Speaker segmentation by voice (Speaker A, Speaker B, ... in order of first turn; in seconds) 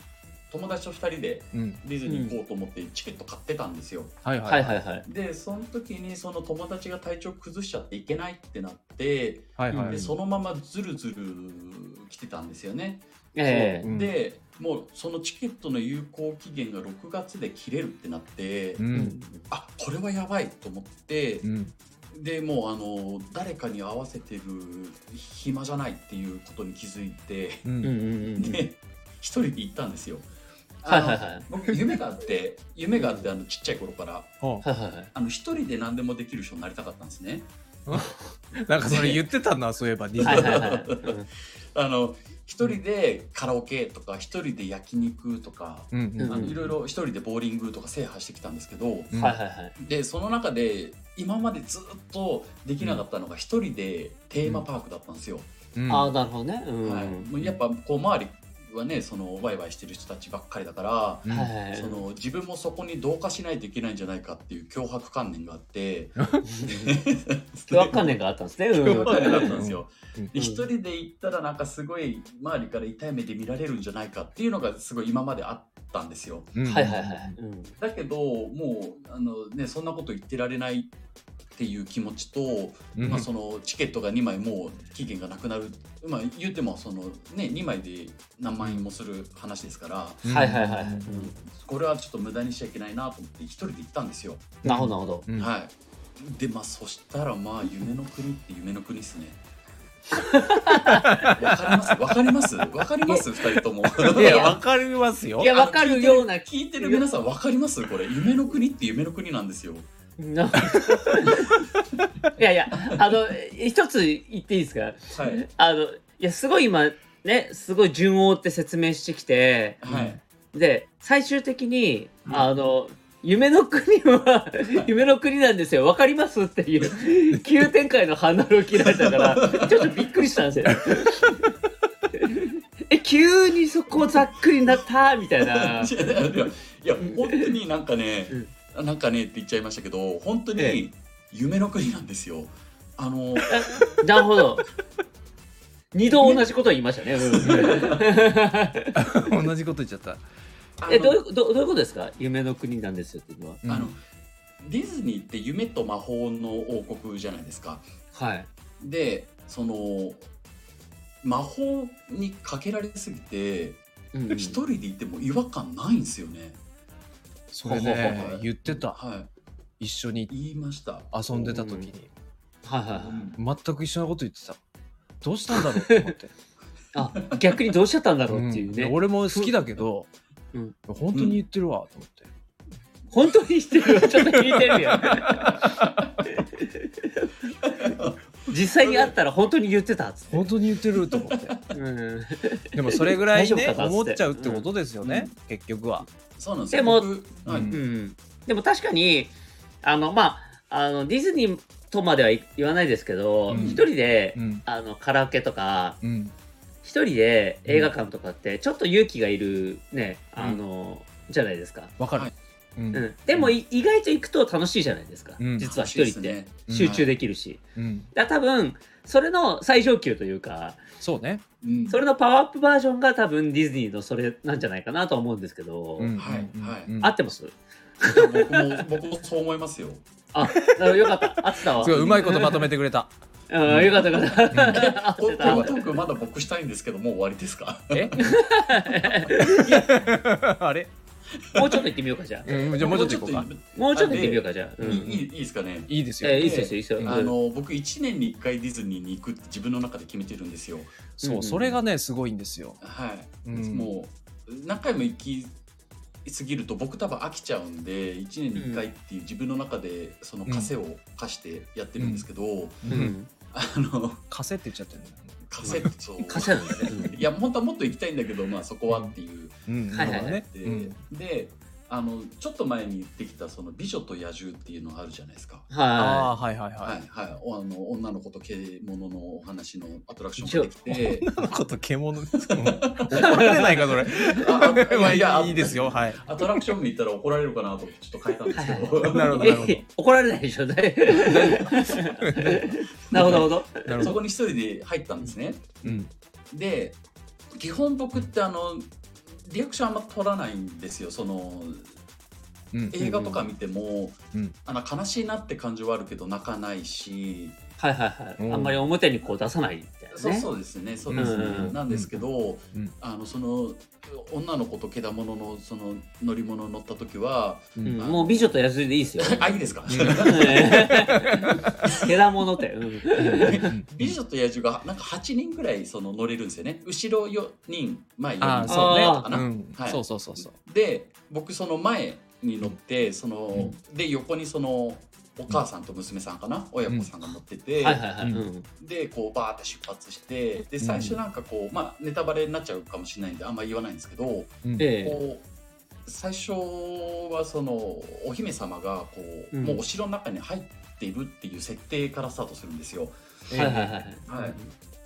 Speaker A: 0.5-4.2, 5.0-18.9, 19.5-21.5, 22.1-27.6, 28.4-30.3, 30.8-34.4, 35.1-37.5, 38.9-39.2, 40.2-41.1, 41.7-49.1, 49.8-55.5, 56.8-68.2, 68.7-76.6, 77.8-80.9, 81.5-90.3, 91.5-94.6, 95.4-99.4, 101.3-104.6, 105.5-109.9, 115.1-115.4, 119.8-120.2, 128.8-130.1, 135.4-143.9, 146.1-146.4, 147.2-148.1, 150.8-151.2, 153.7-154.0, 154.6-157.9, 158.8-160.2, 161.2-166.6, 167.7-169.3, 170.3-171.7, 172.9-173.4, 185.3-186.1, 187.6-189.1, 191.0-191.7, 195.0-195.3, 196.4-197.8, 203.5-203.8, 215.6-217.1, 221.6-222.0, 226.2-226.9, 228.0-230.1, 231.8-232.2, 234.7-238.4, 239.3-239.8, 241.6-241.8, 242.6-251.0, 252.8-255.6, 256.2-264.2, 265.5-275.7, 276.8-281.4, 282.4-289.7, 293.1-293.5, 294.0-296.0, 296.5-297.0, 297.6-301.9, 302.9-307.6, 310.1-318.6, 319.2-321.1, 321.8-322.1, 323.4-338.1, 338.8-345.5, 346.1-353.6, 354.3-354.6
Speaker B: 1.5-1.8, 4.2-4.7, 9.6-10.1, 13.8-14.2, 18.8-19.2, 21.4-21.7, 27.6-27.9, 37.9-40.7, 45.9-46.7, 49.1-49.4, 55.8-56.1, 61.3-61.5, 68.8-70.3, 76.6-77.3, 83.0-83.3, 90.2-91.3, 94.6-95.5, 104.0-105.5, 119.9-120.2, 147.4-147.8, 148.9-150.2, 153.6-153.9, 167.5-169.0, 169.8-170.3, 171.1-172.1, 173.4-174.6, 175.2-176.3, 178.3-180.1, 180.9-182.3, 184.2-185.9, 190.3-191.6, 192.7-196.1, 197.5-197.8, 203.5-204.6, 206.0-206.3, 207.7-207.9, 212.0-213.5, 215.4-215.7, 216.7-217.1, 217.8-218.1, 221.0-221.4, 226.0-227.2, 230.8-231.1, 231.8-233.1, 233.7-234.8, 237.9-238.2, 239.3-240.9, 242.5-243.5, 244.8-245.2, 245.9-247.2, 251.2-252.8, 253.5-253.9, 262.0-262.3, 262.8-263.1, 264.3-265.9, 268.9-269.1, 269.7-270.9, 276.0-277.0, 280.9-286.3, 289.0-289.8, 291.1-294.2, 295.8-296.1, 302.7-303.0, 308.4-308.8, 311.1-312.2, 319.9-321.7, 323.2-324.1, 328.4-330.5, 340.8-341.2, 353.5-354.1
Speaker C: 2.1-2.4, 4.5-5.1, 9.7-10.1, 13.3-13.9, 18.9-19.5, 27.8-28.6, 30.9-31.5, 33.0-33.3, 34.6-35.1, 40.2-41.3, 46.2-46.6, 49.1-49.8, 55.9-57.3, 61.3-62.0, 66.5-67.0, 67.7-69.6, 70.3-70.7, 76.7-77.8, 90.3-91.4, 94.7-95.3, 100.2-101.4, 104.0-104.6, 105.4-107.0, 110.2-111.5, 112.4-119.8, 120.5-131.5, 132.1-135.9, 137.0-137.5, 143.5-144.7, 145.9-149.0, 150.9-153.6, 158.1-158.5, 164.1-164.6, 167.7-168.0, 171.5-171.9, 172.6-173.3, 175.5-176.1, 176.9-179.5, 183.1-185.5, 186.2-187.3, 188.5-190.5, 191.7-194.7, 196.7-197.1, 197.7-206.0, 206.8-211.9, 212.9-217.6, 218.1-220.8, 221.9-226.1, 227.0-228.8, 230.3-232.7, 233.5-235.9, 238.2-239.9, 241.5-242.9, 243.8-245.2, 246.2-247.3, 251.2-251.8, 258.6-258.8, 262.9-263.3, 265.6-267.2, 269.9-270.4, 275.7-276.3, 280.4-280.7, 283.1-283.7, 288.5-294.1, 303.0-303.5, 307.8-310.5, 311.1-311.8, 317.9-319.6, 320.1-323.7, 328.7-329.3, 337.8-338.7, 344.8-345.2, 349.5-349.8, 353.6-354.7